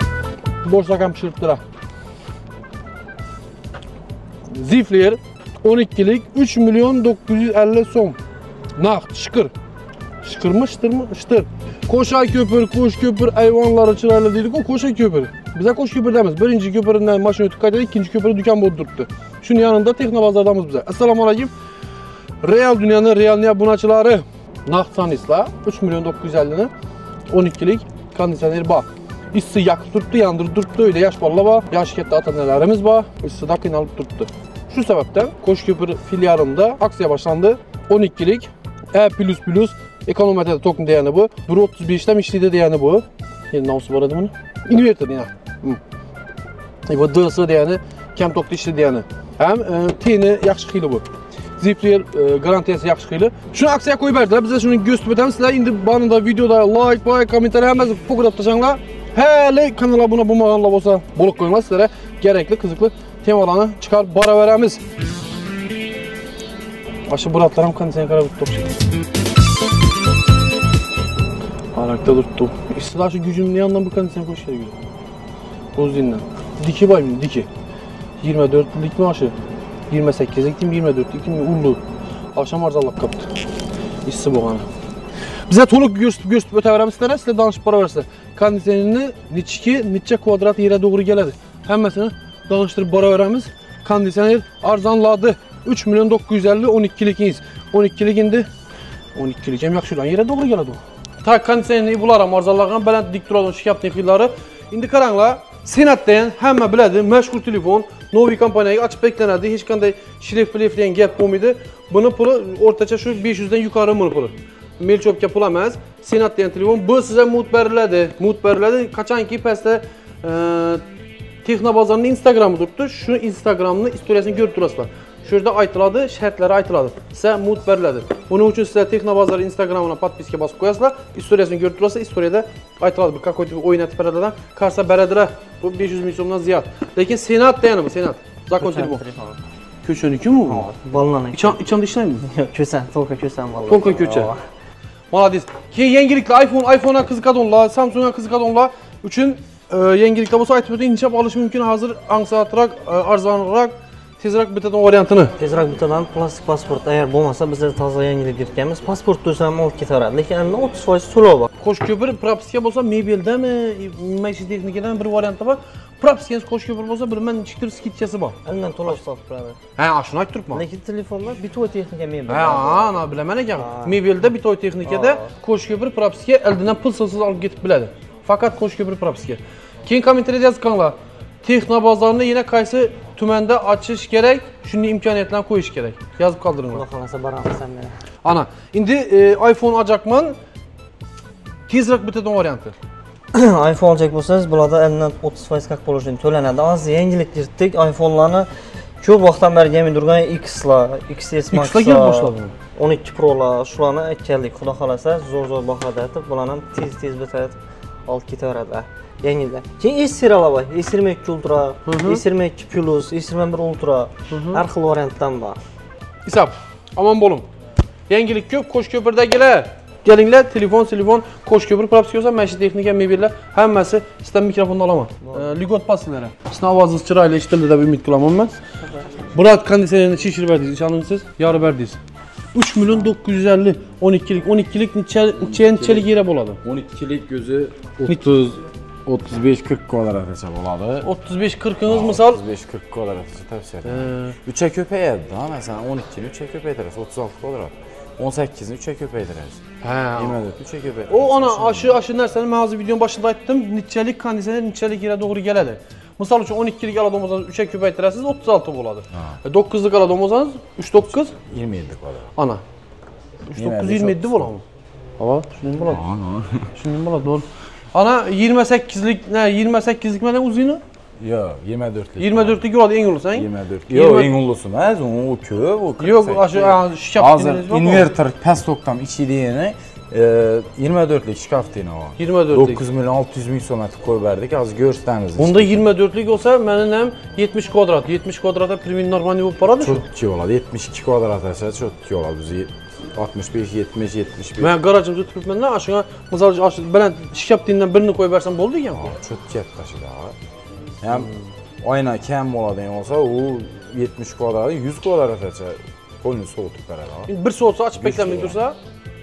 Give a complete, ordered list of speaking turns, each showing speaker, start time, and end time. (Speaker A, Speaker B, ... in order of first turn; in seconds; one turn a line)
Speaker A: 0.6-1.6
Speaker A: 4.5-8.2
Speaker A: 8.8-9.5
Speaker A: 10.2-21.5
Speaker A: 22.4-26.7
Speaker A: 27.3-45.8
Speaker A: 46.9-51.0
Speaker A: 51.6-64.8
Speaker A: 67.1-68.8
Speaker A: 71.8-74.8
Speaker A: 75.8-77.5
Speaker A: 78.2-79.3
Speaker A: 79.9-81.8
Speaker A: 82.3-83.3
Speaker A: 84.0-84.7
Speaker A: 85.5-98.5
Speaker A: 99.2-120.8
Speaker A: 121.4-139.0
Speaker B: 138.6-139.4
Speaker A: 139.8-140.7
Speaker B: 140.5-141.6
Speaker A: 141.3-142.3
Speaker B: 142.2-144.4
Speaker A: 143.7-144.3
Speaker A: 145.1-155.3
Speaker B: 155.4-161.5
Speaker A: 161.6-169.0
Speaker B: 168.4-169.6
Speaker A: 169.8-170.6
Speaker B: 170.5-174.0
Speaker A: 172.3-186.8
Speaker B: 174.8-175.2
Speaker B: 186.7-188.0
Speaker A: 188.2-190.4
Speaker A: 191.7-192.8
Speaker B: 193.3-198.5
Speaker B: 199.0-215.6
Speaker A: 201.5-202.5
Speaker A: 211.8-212.2
Speaker A: 214.3-214.6
Speaker A: 216.2-217.5
Speaker A: 218.1-228.5
Speaker A: 229.3-232.0
Speaker A: 232.5-236.6
Speaker C: 235.4-236.1
Speaker C: 236.6-241.1
Speaker A: 241.0-242.4
Speaker C: 241.8-249.6
Speaker A: 243.8-244.3
Speaker A: 249.8-250.4
Speaker C: 250.2-252.0
Speaker A: 251.1-261.3
Speaker C: 259.1-259.4
Speaker C: 261.3-262.3
Speaker A: 262.4-262.6
Speaker A: 263.5-264.6
Speaker C: 263.5-264.5
Speaker A: 265.2-266.0
Speaker C: 265.9-266.7
Speaker A: 266.7-270.8
Speaker C: 271.2-272.7
Speaker A: 272.2-274.3
Speaker C: 273.3-285.9
Speaker A: 276.0-278.1
Speaker A: 282.2-282.8
Speaker A: 285.4-290.0
Speaker C: 289.8-294.7
Speaker A: 294.6-299.1
Speaker C: 298.9-300.3
Speaker C: 301.0-307.3
Speaker A: 307.3-308.8
Speaker C: 307.9-308.6